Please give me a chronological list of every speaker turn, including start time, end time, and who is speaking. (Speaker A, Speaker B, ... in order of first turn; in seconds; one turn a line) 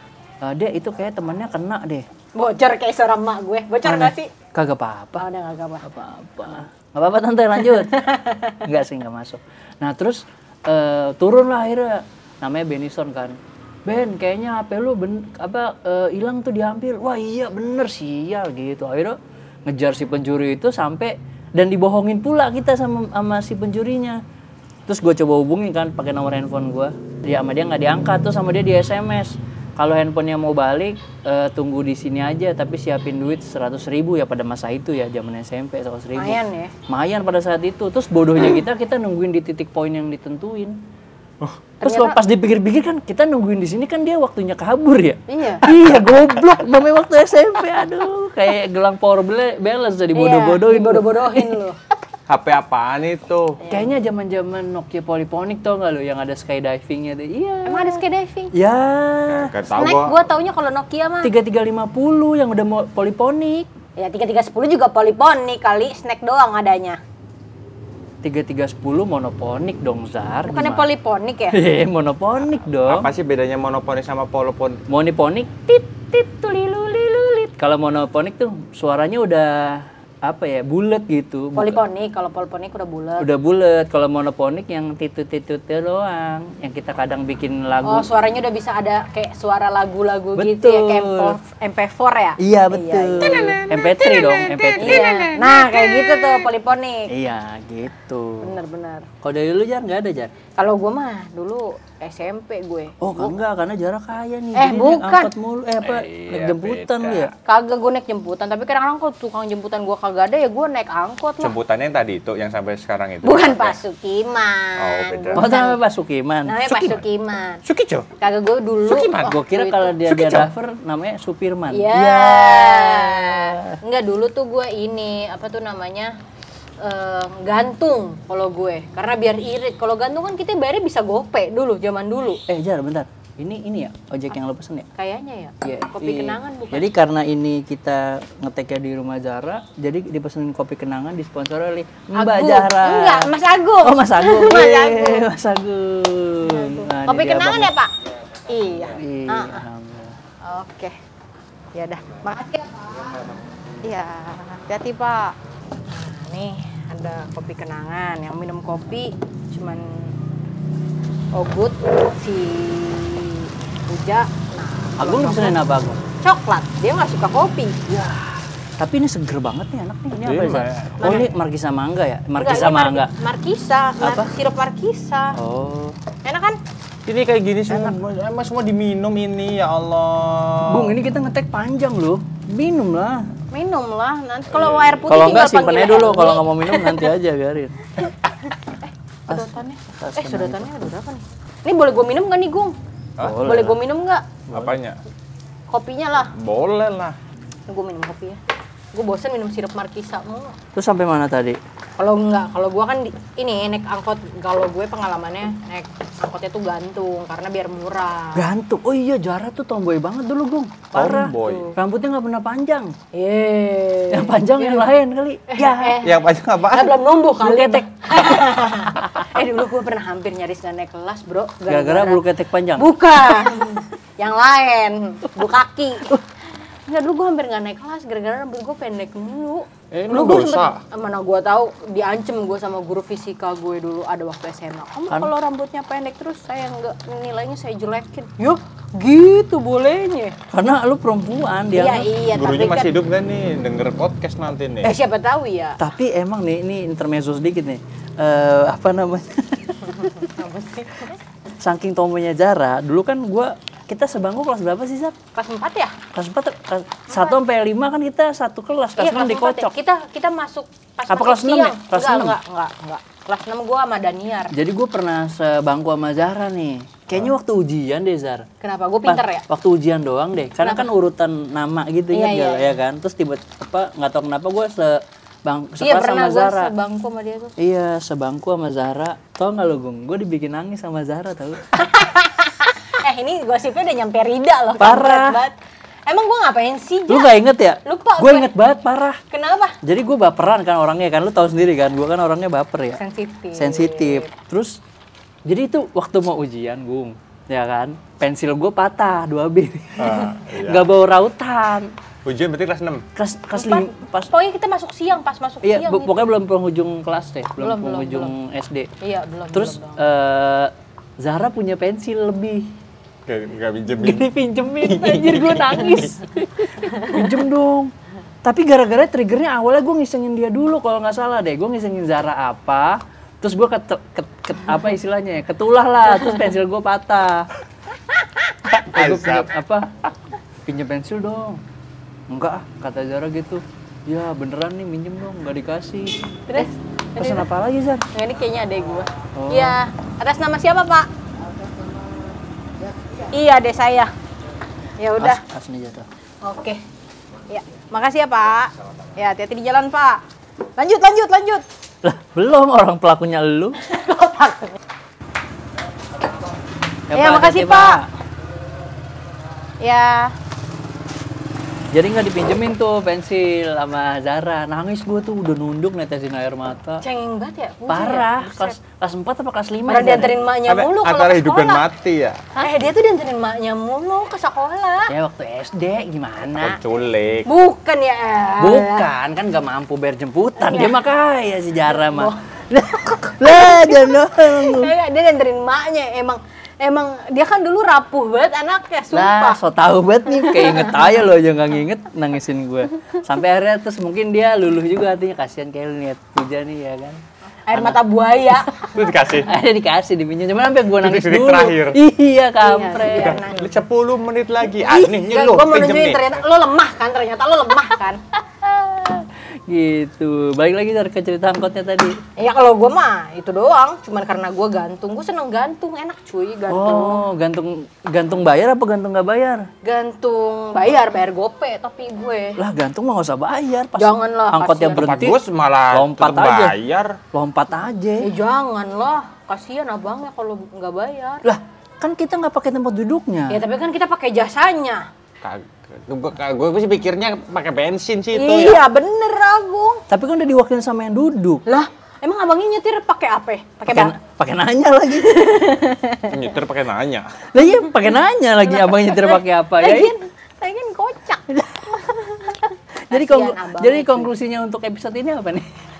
Speaker A: 0.4-2.0
Speaker B: 2.3-4.3
Speaker A: 3.8-5.2
Speaker B: 5.2-5.8
Speaker A: 5.8-24.2
Speaker B: 7.7-8.6
Speaker A: 24.9-40.8
Speaker B: 36.1-36.7
Speaker B: 41.8-42.2
Speaker A: 41.8-51.6
Speaker B: 45.3-45.6
Speaker B: 50.1-51.8
Speaker C: 52.3-53.6
Speaker B: 53.6-53.9
Speaker A: 53.7-58.0
Speaker B: 57.6-58.5
Speaker A: 58.5-59.5
Speaker C: 59.3-60.2
Speaker B: 59.7-61.3
Speaker A: 61.2-63.7
Speaker B: 64.0-67.0
Speaker A: 68.2-70.9
Speaker B: 70.5-71.6
Speaker A: 71.5-73.1
Speaker C: 72.9-74.8
Speaker A: 74.9-81.8
Speaker B: 81.5-83.3
Speaker A: 83.2-88.0
Speaker B: 87.8-97.1
Speaker A: 90.3-91.4
Speaker A: 92.4-95.0
Speaker C: 94.7-96.2
Speaker A: 97.1-98.6
Speaker B: 98.4-99.0
Speaker A: 99.2-100.3
Speaker B: 100.6-103.4
Speaker A: 103.0-107.3
Speaker B: 104.5-105.3
Speaker C: 105.8-107.3
Speaker B: 107.5-111.5
Speaker C: 111.4-113.8
Speaker B: 113.2-115.8
Speaker C: 114.8-115.5
Speaker A: 115.3-116.9
Speaker B: 116.5-117.6
Speaker C: 117.6-118.1
Speaker B: 118.2-120.0
Speaker C: 118.8-119.4
Speaker A: 119.2-123.8
Speaker C: 120.0-120.5
Speaker B: 121.7-126.1
Speaker B: 126.8-132.4
Speaker A: 132.5-134.9
Speaker B: 135.0-136.9
Speaker A: 135.6-143.3
Speaker B: 142.1-145.3
Speaker A: 143.8-147.7
Speaker B: 146.4-147.9
Speaker B: 148.5-149.6
Speaker A: 148.9-150.1
Speaker B: 150.4-150.9
Speaker B: 151.7-153.2
Speaker B: 153.8-155.3
Speaker B: 155.9-160.1
Speaker B: 161.3-165.6
Speaker A: 165.0-166.0
Speaker B: 166.2-167.8
Speaker A: 167.9-173.1
Speaker C: 170.2-171.3
Speaker B: 171.0-171.3
Speaker B: 172.4-175.3
Speaker A: 174.0-174.3
Speaker A: 175.3-176.0
Speaker B: 176.2-176.6
Speaker C: 177.1-181.0
Speaker A: 180.7-183.3
Speaker B: 183.5-187.1
Speaker C: 184.5-185.4
Speaker A: 185.1-187.9
Speaker A: 189.3-190.7
Speaker B: 189.3-192.7
Speaker A: 193.2-193.8
Speaker B: 193.4-194.3
Speaker A: 194.5-194.8
Speaker C: 194.5-195.0
Speaker B: 195.7-196.3
Speaker C: 196.3-197.2
Speaker B: 197.7-198.4
Speaker B: 198.9-200.5
Speaker A: 200.7-201.6
Speaker B: 202.0-208.5
Speaker A: 208.3-212.9
Speaker C: 210.9-211.7
Speaker B: 211.2-211.7
Speaker B: 213.1-214.9
Speaker A: 214.1-216.0
Speaker B: 215.5-222.2
Speaker C: 216.0-217.0
Speaker A: 217.4-217.9
Speaker A: 221.7-222.9
Speaker B: 222.7-226.2
Speaker B: 226.9-240.3
Speaker C: 229.9-230.8
Speaker A: 240.5-242.1
Speaker B: 241.7-242.9
Speaker C: 242.3-244.9
Speaker B: 244.8-245.8
Speaker A: 245.8-250.3
Speaker B: 250.0-251.2
Speaker A: 251.6-255.1
Speaker B: 255.3-256.0
Speaker A: 256.1-259.7
Speaker B: 257.1-257.4
Speaker B: 259.0-264.5
Speaker A: 261.1-262.4
Speaker A: 264.5-268.4
Speaker B: 268.6-269.4
Speaker A: 269.0-276.7
Speaker B: 270.6-270.9
Speaker B: 272.1-272.8
Speaker B: 275.8-277.5
Speaker A: 277.6-281.8
Speaker B: 281.8-285.6
Speaker A: 284.8-285.4
Speaker B: 286.1-288.5
Speaker A: 287.1-289.2
Speaker B: 289.3-289.8
Speaker A: 289.8-293.0
Speaker B: 293.0-294.3
Speaker A: 293.6-294.8
Speaker A: 295.4-301.9
Speaker C: 300.0-300.9
Speaker C: 302.2-303.0
Speaker A: 303.1-304.3
Speaker B: 303.5-306.3
Speaker A: 305.6-308.9
Speaker B: 307.6-308.3
Speaker B: 309.0-310.0
Speaker A: 309.5-312.7
Speaker C: 313.2-314.3
Speaker A: 314.0-317.9
Speaker C: 314.8-316.0
Speaker A: 318.4-327.5
Speaker C: 328.7-329.5
Speaker A: 328.9-329.9
Speaker A: 330.6-331.6
Speaker A: 332.3-338.1
Speaker B: 336.5-337.5
Speaker B: 338.1-341.1
Speaker A: 339.4-339.8
Speaker B: 343.3-344.1
Speaker B: 345.0-345.4
Speaker A: 345.2-346.1
Speaker B: 346.4-346.8
Speaker B: 347.5-350.2
Speaker B: 350.8-351.6
Speaker A: 352.0-353.8
Speaker B: 353.8-354.8
Speaker A: 357.1-358.1
Speaker B: 357.1-358.0
Speaker B: 359.8-360.3
Speaker A: 361.9-367.0
Speaker B: 367.0-368.8
Speaker A: 367.9-370.4
Speaker B: 369.9-371.9
Speaker C: 370.6-372.4
Speaker B: 372.6-375.1
Speaker A: 375.1-376.8
Speaker C: 376.6-377.5
Speaker B: 377.4-379.1
Speaker A: 378.6-384.9
Speaker B: 380.6-381.0
Speaker B: 381.9-382.4
Speaker B: 383.4-389.6
Speaker A: 389.1-397.2
Speaker B: 390.4-391.1
Speaker B: 397.7-399.0
Speaker A: 397.7-398.0
Speaker C: 398.9-399.5
Speaker A: 399.3-403.4
Speaker C: 401.0-402.0
Speaker B: 402.6-403.8
Speaker C: 403.2-406.2
Speaker B: 404.7-408.2
Speaker A: 408.6-412.2
Speaker B: 412.4-417.2
Speaker A: 416.7-419.7
Speaker B: 419.8-422.6
Speaker A: 422.6-425.4
Speaker B: 424.0-425.2
Speaker C: 424.9-427.2
Speaker A: 425.9-426.7
Speaker A: 427.3-428.3
Speaker B: 428.2-431.4
Speaker A: 431.4-433.6
Speaker B: 433.5-435.1
Speaker C: 435.4-438.8
Speaker B: 438.3-440.0
Speaker A: 440.1-441.6
Speaker B: 441.6-444.2
Speaker A: 443.9-445.7
Speaker B: 445.3-446.4
Speaker C: 446.2-447.3
Speaker A: 447.5-450.1
Speaker B: 448.7-452.6
Speaker A: 451.5-451.9
Speaker B: 453.1-454.3
Speaker A: 453.1-455.6